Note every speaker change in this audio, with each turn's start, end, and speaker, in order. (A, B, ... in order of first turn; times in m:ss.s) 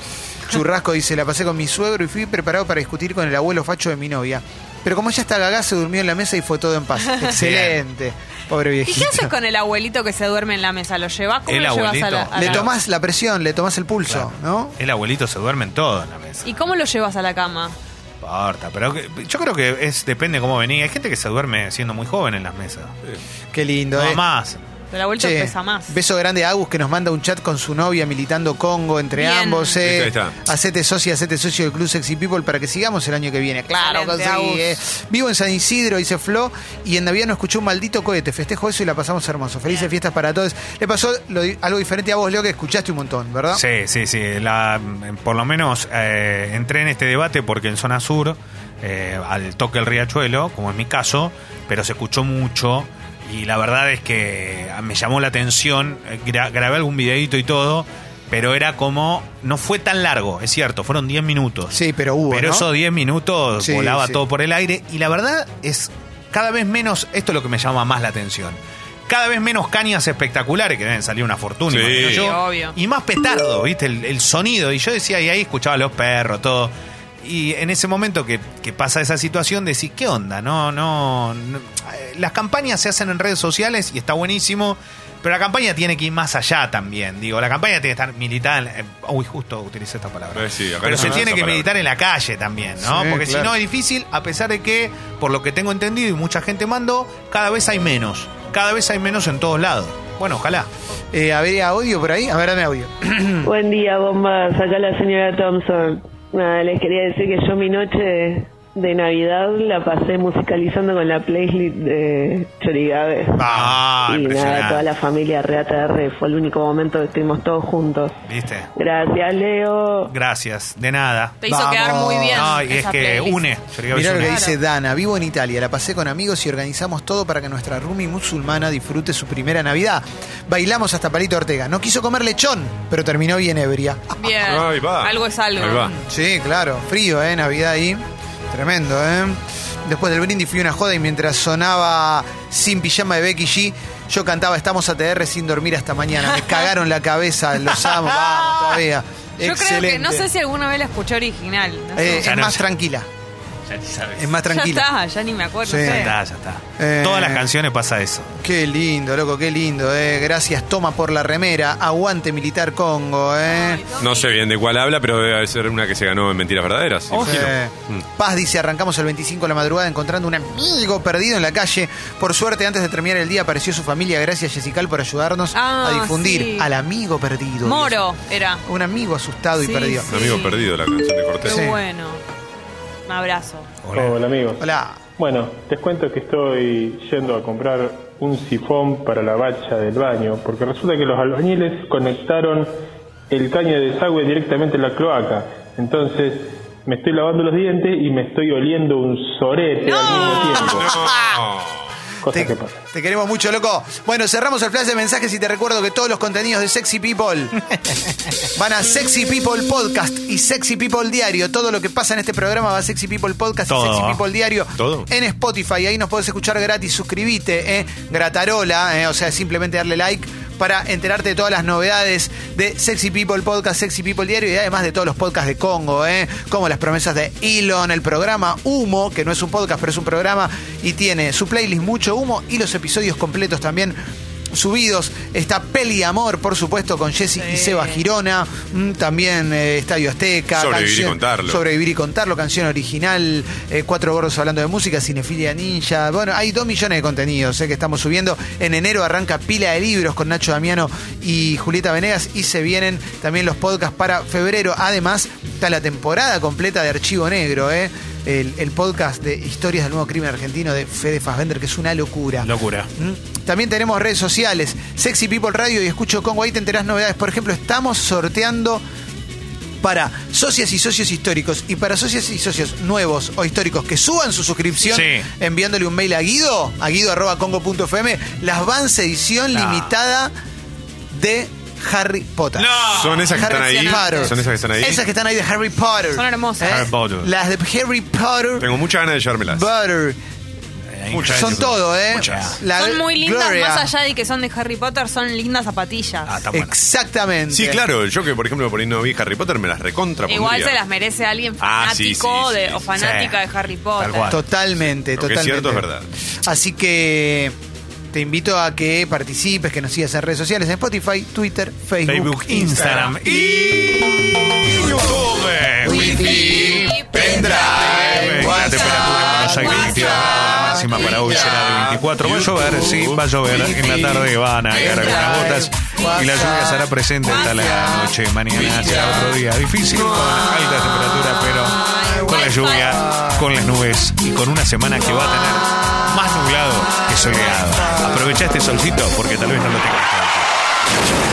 0:00.5-0:09.3 A
0:07.3-0:07.8 B
0:08.8-0:12.6 C
0:11.5-0:12.7 B
0:12.3-0:14.8 A
0:14.1-0:16.4 B
0:16.4-0:17.7 C
0:18.2-0:22.9 B
0:23.5-0:24.2 A
0:24.0-0:24.6 B
0:24.9-0:25.9 C
0:25.2-0:43.6 A
0:29.2-0:29.8 C
0:29.8-0:30.4 D
0:33.8-0:34.8 C
0:43.5-1:01.8 B
1:01.7-1:02.7 A
1:02.3-1:40.7 B
1:03.6-1:04.2 A
1:11.7-1:12.2 D
1:12.0-1:12.7 C
1:30.3-1:31.7 D
1:32.8-1:33.5 A
1:41.1-1:43.5 A
1:43.4-1:58.2 E
1:53.4-1:54.8 B
1:53.4-1:53.7 A
1:58.2-1:58.7 B
1:58.8-2:00.1 E
2:00.1-2:04.4 B
2:01.4-2:03.5 C
2:01.6-2:02.5 A
2:03.9-2:14.2 A
2:04.2-2:04.5 C
2:14.2-2:15.9 C
2:14.4-2:15.9 D
2:15.9-2:30.3 A
2:29.4-2:32.3 C
2:32.0-2:33.1 A
2:32.1-2:32.6 B
2:33.7-2:34.3 B
2:34.2-2:34.9 A
2:34.5-2:36.1 C
2:35.6-2:36.1 A
2:35.8-2:38.3 B
2:36.8-2:37.5 A
2:38.4-2:43.8 A
2:43.4-2:44.4 C
2:44.0-2:48.0 D
2:47.1-2:58.0 A
2:55.5-2:56.7 C
2:57.6-2:58.6 C
2:58.6-3:00.1 A
2:59.6-3:00.7 C
3:00.1-3:01.6 D
3:01.4-3:02.2 C
3:01.4-3:01.8 A
3:03.1-3:03.7 C
3:03.8-3:04.2 B
3:03.9-3:12.7 F
3:04.6-3:05.0 A
3:13.3-3:20.8 F
3:19.8-3:20.7 C
3:20.6-3:21.3 A
3:20.7-3:21.9 D
3:22.2-3:22.8 F
3:22.3-3:27.6 A
3:28.5-3:54.0 A
3:33.7-3:34.2 B
3:34.8-3:35.1 D
3:54.5-4:28.8 A
3:57.4-3:58.0 C
4:00.5-4:01.6 D
4:22.4-4:22.9 B
4:29.8-4:40.3 A
4:34.9-4:35.3 B
4:39.5-4:39.9 B
4:41.1-4:48.8 A
4:42.6-4:43.4 B
4:42.9-4:45.0 D
4:43.4-4:44.3 C
4:46.1-4:46.9 C
4:46.6-4:47.3 B
4:48.6-4:49.7 D
4:49.4-4:50.2 A
4:50.9-4:52.6 B
4:51.1-4:51.6 D
4:51.2-4:53.9 A
4:52.8-4:56.3 C
4:56.2-4:56.7 B
4:56.5-4:57.8 A
4:57.5-5:00.8 D
5:00.3-5:04.4 C
5:01.6-5:02.8 D
5:02.9-5:03.4 B
5:04.0-5:04.4 B
5:04.3-5:05.8 A
5:05.2-5:06.1 D
5:06.4-5:07.5 A
5:08.1-5:13.1 A
5:12.0-5:40.5 B
5:15.8-5:21.5 A
5:16.3-5:20.4 C
5:21.2-5:23.2 D
5:23.4-5:29.3 A
5:24.7-5:25.6 C
5:27.3-5:27.9 C
5:30.0-5:30.4 A
5:31.5-5:33.0 C
5:32.0-5:33.4 A
5:37.2-5:38.7 A